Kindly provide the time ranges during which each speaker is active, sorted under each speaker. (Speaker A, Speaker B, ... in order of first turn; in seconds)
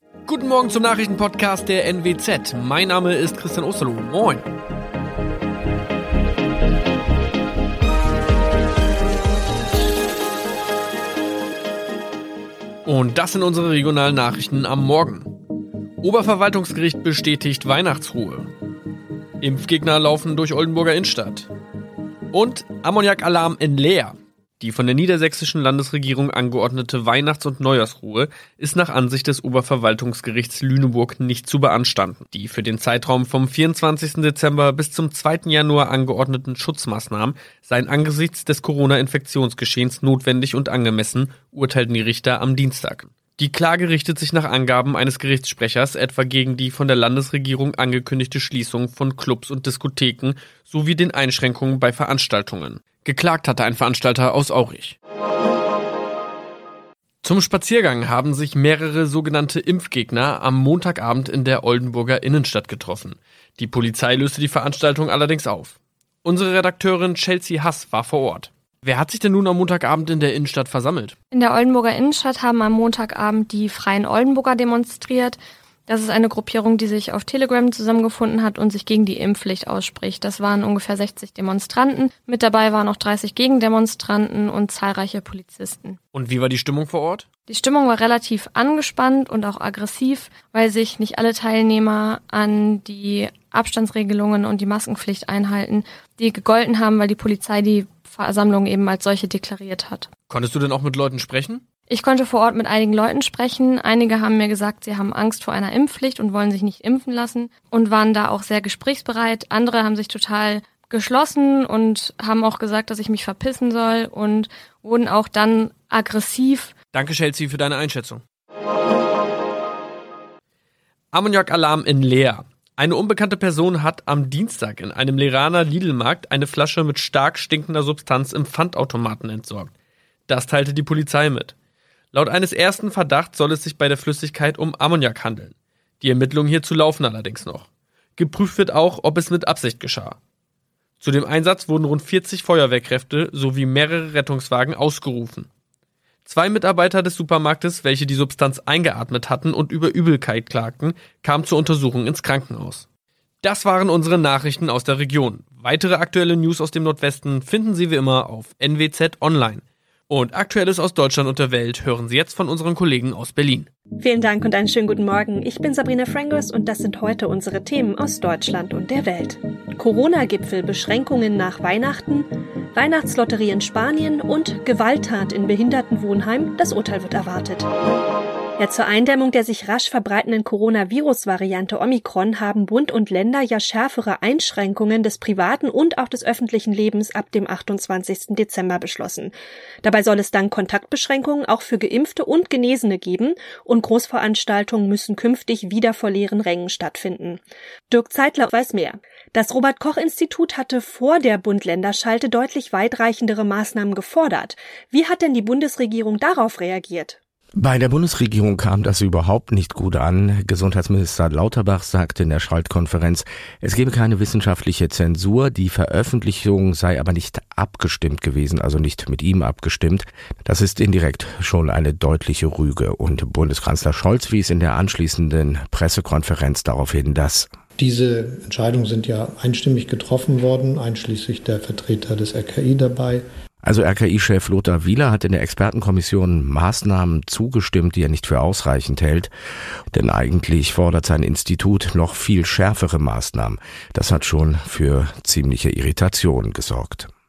Speaker A: 0.3-4.5, 12.8-15.3, 16.0-18.5, 19.4-21.5, 22.3-55.0, 57.2-71.1, 86.1-87.2, 100.3-101.6, 116.9-118.2, 121.1-129.7, 130.3-131.5, 132.1-140.2, 141.0-145.5, 146.2-152.8, 153.4-163.7
Speaker B: 71.3-86.0, 87.5-100.1, 101.9-116.7
Speaker C: 164.0-177.7, 178.6-207.2
Speaker D: 207.6-227.5, 233.6-239.3, 239.9-247.1
Speaker E: 227.8-233.2